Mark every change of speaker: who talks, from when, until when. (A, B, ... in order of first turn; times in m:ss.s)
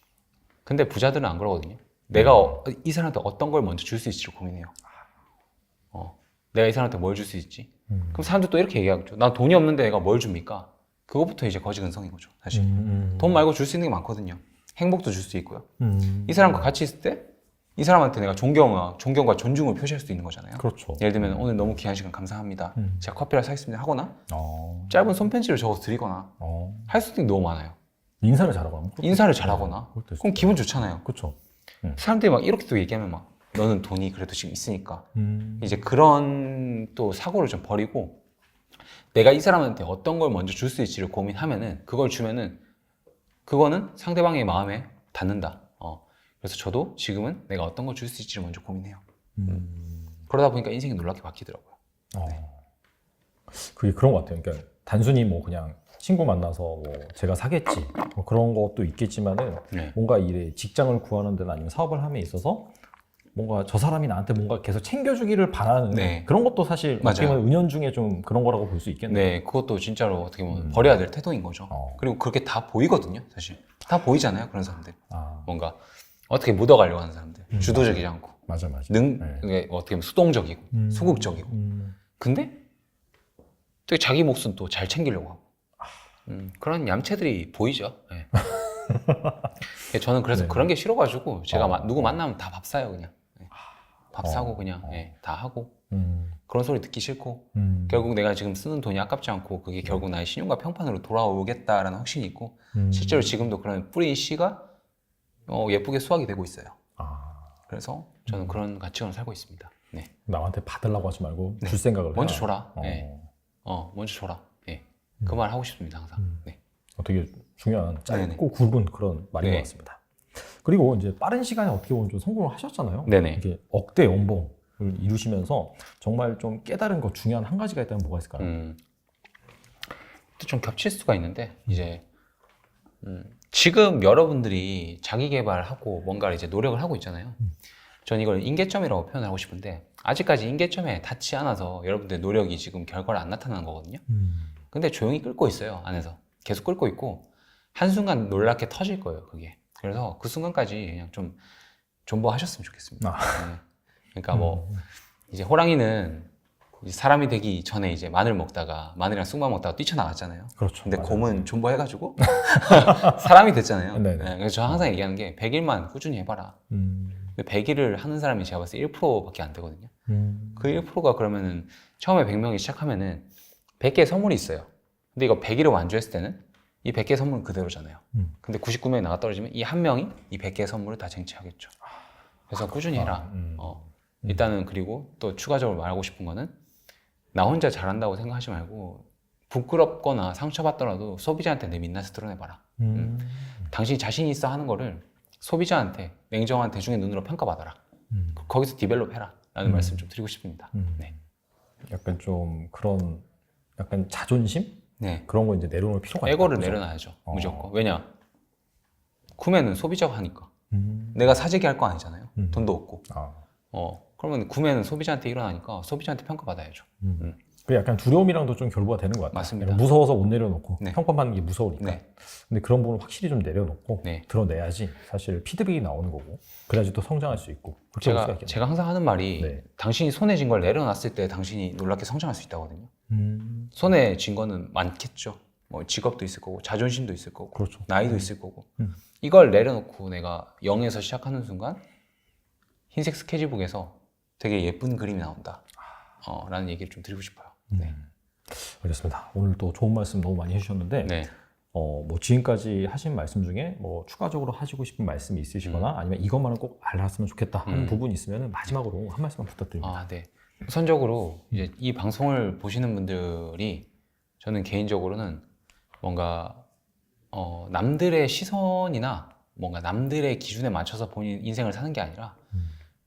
0:00.7-0:04.7 A
0:02.1-0:02.6 B
0:05.9-0:15.7 A
0:07.9-0:08.3 B
0:12.5-0:13.5 B
0:15.8-0:16.7 B
0:16.3-0:24.2 A
0:20.6-0:21.6 B
0:22.8-0:23.1 B
0:24.3-0:25.1 B
0:24.9-0:26.3 A
0:26.4-0:27.0 B
0:26.9-0:27.8 A
0:28.2-0:32.0 B
0:29.0-0:31.0 A
0:32.0-0:35.1 A
0:35.2-0:35.9 B
0:35.6-0:38.2 A
0:39.1-0:42.6 A
0:43.5-0:49.6 A
0:49.4-0:50.2 B
0:50.3-0:51.8 A
0:52.1-0:52.6 B
0:53.5-1:02.7 B
1:03.4-1:09.3 B
1:05.9-1:06.3 A
1:07.0-1:07.4 A
1:09.1-1:15.8 A
1:10.5-1:11.0 B
1:11.7-1:12.0 B
1:15.1-1:15.5 B
1:16.3-1:18.4 A
1:17.5-1:19.5 B
1:18.9-1:21.5 A
1:20.7-1:22.0 B
1:22.2-1:22.6 A
1:23.9-1:25.4 A
1:26.3-1:28.4 A
1:28.4-1:29.5 B
1:29.8-1:33.5 A
1:30.3-1:30.7 B
1:31.5-1:32.2 B
1:34.1-1:35.8 A
1:34.2-1:35.1 B
1:35.9-1:36.4 B
1:36.5-1:44.7 A
1:37.6-1:38.1 B
1:42.7-1:43.4 B
1:45.5-1:46.8 A
1:47.0-1:47.6 B
1:47.7-1:50.1 A
1:48.3-1:48.6 B
1:50.3-1:53.3 B
1:51.6-1:53.1 A
1:53.6-1:56.6 A
1:56.2-1:56.4 B
1:57.0-2:08.5 B
1:58.1-1:58.4 A
1:59.4-1:59.7 A
2:03.1-2:03.4 A
2:08.4-2:08.8 A
2:10.4-2:12.0 A
2:13.0-2:17.4 A
2:18.0-2:24.0 A
2:24.1-2:24.5 B
2:24.7-2:31.4 A
2:32.1-2:33.6 A
2:33.0-2:33.5 B
2:34.2-2:34.7 A
2:34.3-2:34.8 B
2:35.3-2:46.6 A
2:40.6-2:41.5 B
2:42.3-2:43.3 B
2:43.9-2:44.8 B
2:46.7-2:47.4 B
2:47.4-2:49.9 A
2:50.1-2:50.8 B
2:50.6-2:53.3 A
2:53.8-3:01.8 A
3:02.5-3:06.6 A
3:02.7-3:04.4 B
3:07.3-3:17.8 A
3:12.8-3:13.7 B
3:18.1-3:18.5 B
3:18.4-3:21.1 A
3:19.6-3:20.0 B
3:20.7-3:21.2 B
3:21.9-3:23.3 B
3:23.8-3:27.7 B
3:25.0-3:25.3 A
3:26.2-3:28.1 A
3:29.4-3:30.5 A
3:30.7-3:31.4 B
3:31.1-3:33.1 A
3:32.4-3:33.4 B
3:33.7-3:37.4 A
3:37.0-3:48.6 B
3:39.3-3:39.8 A
3:48.0-3:52.9 A
3:49.4-3:49.6 B
3:53.1-3:53.8 B
3:53.8-3:58.7 A
3:57.6-3:59.0 B
3:59.2-4:01.8 A
4:02.9-4:05.6 A
4:06.2-4:07.9 A
4:07.7-4:20.0 B
4:11.0-4:11.3 A
4:15.6-4:15.9 A
4:17.7-4:18.0 A
4:19.8-4:23.9 A
4:24.4-4:25.4 A
4:26.0-4:26.7 A
4:27.3-4:32.4 A